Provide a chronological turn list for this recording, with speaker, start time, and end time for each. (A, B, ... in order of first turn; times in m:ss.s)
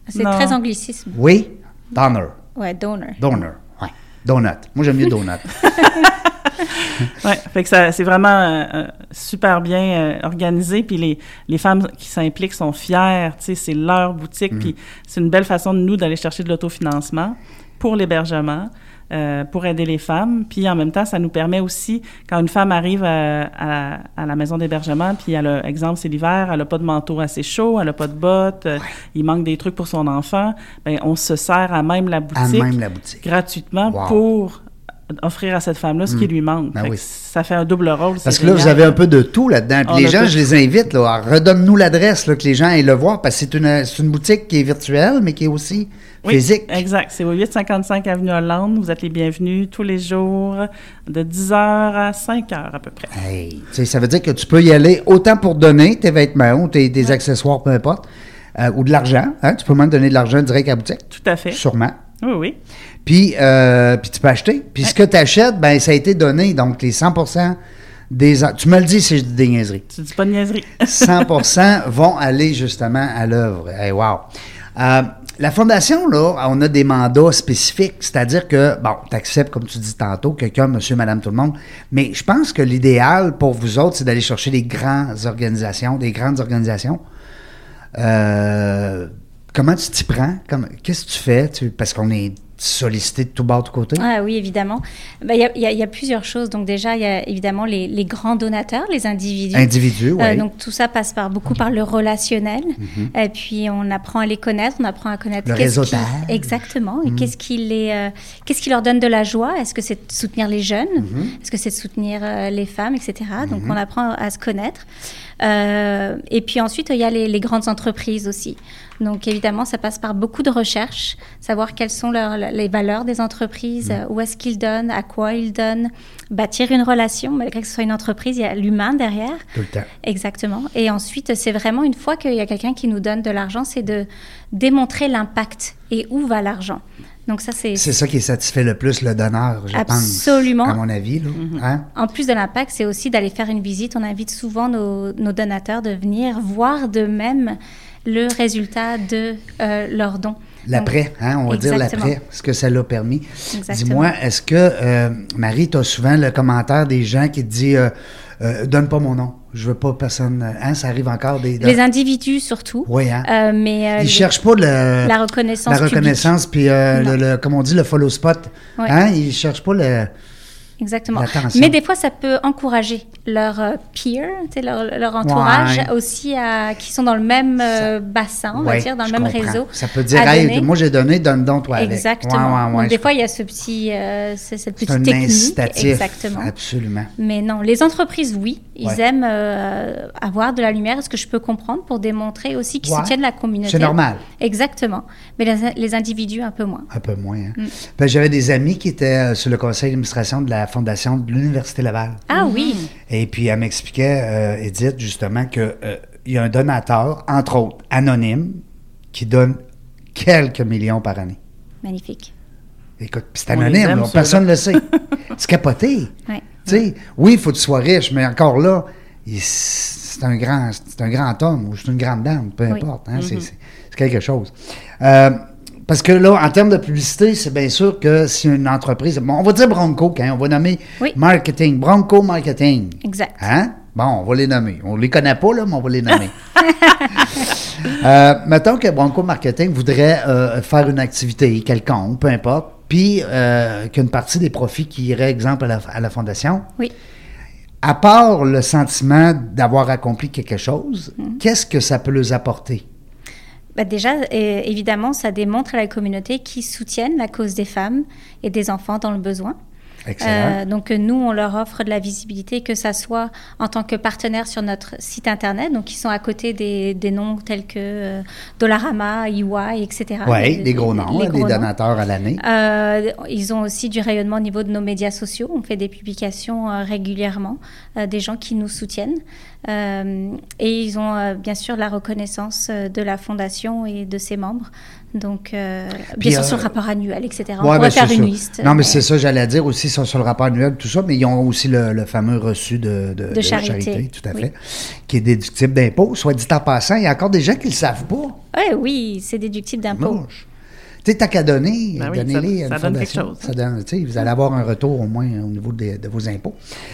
0:00.1-0:01.2 A
0:00.2-0:00.6 B
0:01.1-0:02.4 C
0:02.6-0:03.2 A
0:03.2-0:05.6 C
0:05.6-0:34.6 B
0:32.4-0:33.2 C
0:33.9-0:34.2 C
0:35.1-0:39.0 B
0:36.1-0:37.0 C
0:38.2-0:46.8 C
0:39.9-0:40.4 B
0:46.2-0:53.1 B
0:53.1-1:02.0 C
1:01.1-1:01.6 B
1:02.2-1:02.6 B
1:03.0-1:07.6 C
1:08.1-1:09.9 C
1:09.9-1:11.4 B
1:10.8-1:27.0 C
1:28.0-1:34.0 C
1:34.0-1:54.9 A
1:39.5-1:40.5 C
1:42.8-1:43.1 C
1:45.4-1:47.3 C
1:51.0-1:51.4 C
1:53.4-1:53.8 C
1:55.4-2:09.4 A
2:09.6-2:09.9 C
2:10.0-2:17.9 A
2:17.8-2:21.9 C
2:19.7-2:20.8 A
2:21.4-2:21.6 B
2:22.0-2:30.9 A
2:30.7-2:41.8 C
2:31.5-2:32.1 A
2:33.5-2:34.1 A
2:41.6-2:44.3 A
2:42.9-2:43.3 C
2:44.0-2:50.1 C
2:45.0-2:46.3 A
2:50.8-3:00.7 A
2:51.1-2:51.8 C
2:55.2-2:55.9 C
2:58.5-3:03.1 C
3:01.8-3:06.5 A
3:04.8-3:07.1 C
3:07.2-3:16.9 A
3:12.8-3:14.2 C
3:16.9-3:22.2 C
3:22.3-3:22.9 A
3:22.4-3:22.7 B
3:23.1-3:28.6 C
3:29.1-3:29.6 C
3:30.2-3:31.4 C
3:31.8-3:32.3 A
3:33.0-3:36.1 C
3:33.5-3:35.0 B
3:36.7-3:56.4 C
3:43.2-3:43.5 B
3:53.0-3:53.5 A
3:56.7-3:57.1 A
3:57.1-4:06.7 C
4:07.8-4:12.8 C
4:13.8-4:19.6 A
4:20.1-4:20.6 C
4:20.2-4:31.7 A
4:30.2-4:32.4 C
4:32.4-4:49.0 A
4:46.1-4:46.7 C
4:47.6-4:58.4 C
4:53.3-4:54.4 A
4:58.5-5:00.2 A
4:59.9-5:00.5 C
5:01.0-5:06.6 C
5:02.0-5:03.5 B